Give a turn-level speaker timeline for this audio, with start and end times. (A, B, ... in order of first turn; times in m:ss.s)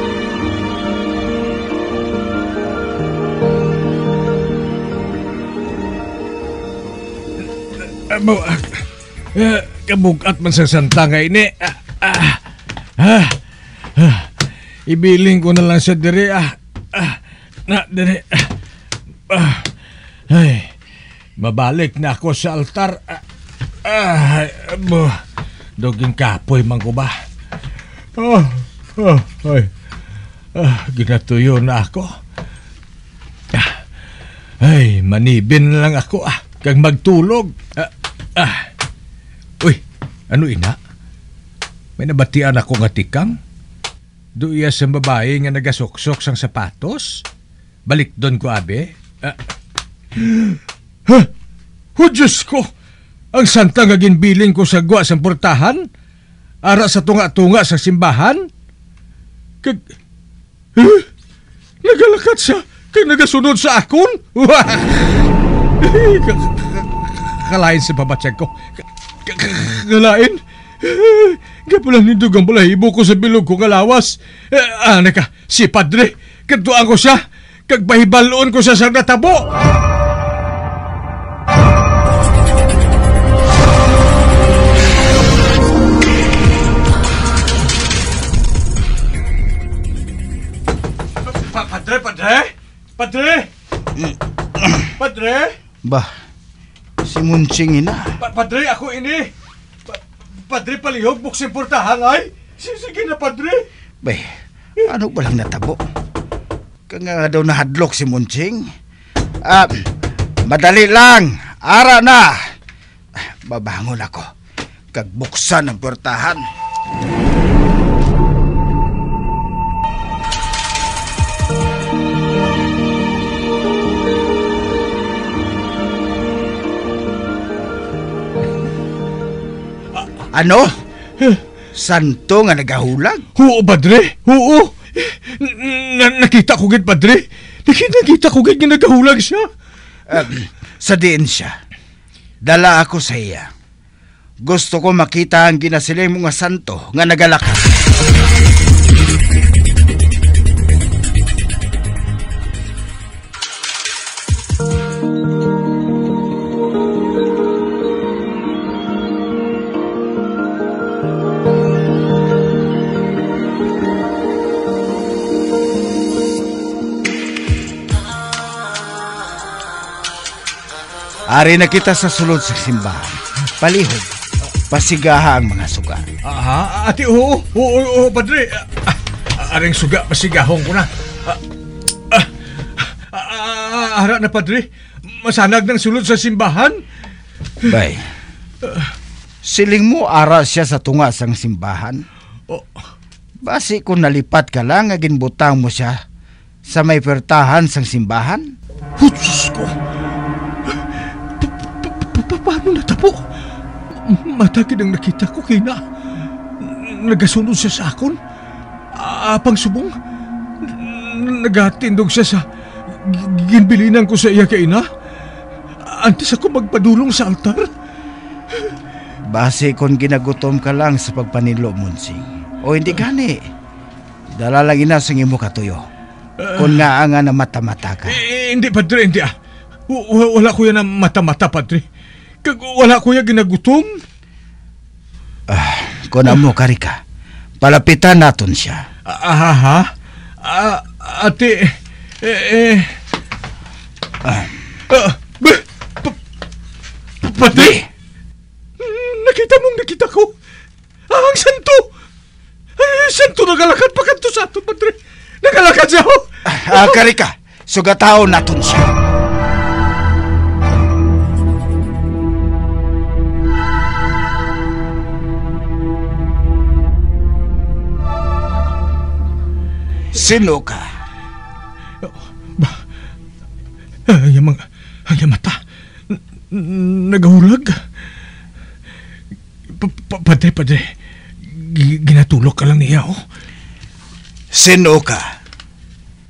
0:07.8-0:12.4 A
0:13.0-0:13.4 A
0:14.0-0:14.3 A
0:14.9-0:18.5 A
0:19.3-0:19.7 A
0:20.3-0:20.7 A
0:21.4-0:23.2 A
0:23.8-0:25.2 A
0:25.8-0:27.1 A
0:28.2-0:29.7 A
0:30.6-0:32.1 A
0:33.5-0:33.8 A
0:34.6-0:38.6 A
0:39.6-0:40.8 A
0:42.0-0:43.4 A
0:44.4-0:47.2 A
0:47.9-0:49.4 A
0:50.1-0:51.3 A
0:52.0-0:52.7 A
0:53.3-0:55.8 A
0:56.6-0:58.4 A
1:00.8-1:01.1 A
1:01.8-1:05.2 A
1:05.8-1:19.5 A
1:31.2-1:33.5 A
1:34.0-1:34.8 B
1:34.8-1:35.5 A
1:37.0-1:38.1 B
1:38.2-1:39.3 A
1:39.9-1:43.7 A
1:44.0-1:44.3 B
1:44.8-1:45.8 B
1:46.9-1:48.7 B
1:49.4-1:49.8 B
1:50.4-1:52.4 B
1:53.2-1:54.3 B
1:54.9-1:56.4 B
2:10.3-2:10.8 B
2:11.7-2:13.2 B
2:13.4-2:19.4 A
2:20.1-2:21.5 B
2:22.4-2:23.5 B
2:24.4-2:27.8 B
2:51.3-2:54.1 B
2:54.7-2:56.0 B
2:56.2-3:01.4 A
3:02.1-3:06.8 A
3:07.6-3:08.0 B
3:09.4-3:12.0 B
3:13.4-3:16.0 B
3:16.6-3:18.5 B
3:19.0-3:19.7 A
3:21.4-3:23.2 A
3:23.9-3:25.8 A
3:26.6-3:28.2 A
3:28.9-3:29.9 A
3:30.6-3:32.4 A
3:33.0-3:34.8 A
3:35.8-3:37.7 A
3:39.3-3:43.4 B
3:44.4-3:45.8 B
3:46.4-3:46.8 A
3:46.5-3:48.2 B
3:48.0-3:49.3 A
3:49.9-3:51.8 A
3:52.4-3:54.0 A
3:55.5-3:57.0 B
3:57.6-3:58.8 B
3:59.0-3:59.9 A
4:00.4-4:02.9 A
4:04.9-4:06.2 A
4:07.2-4:07.8 A
4:07.5-4:07.8 B
4:08.8-4:10.3 A
4:11.1-4:11.9 A
4:12.8-4:17.0 A
4:16.4-4:18.9 B
4:30.1-4:30.9 B
4:32.0-4:32.8 A
4:34.1-4:35.6 A
4:36.1-4:37.8 A
4:39.7-4:40.9 A
4:41.5-4:43.2 A
4:44.5-4:45.2 B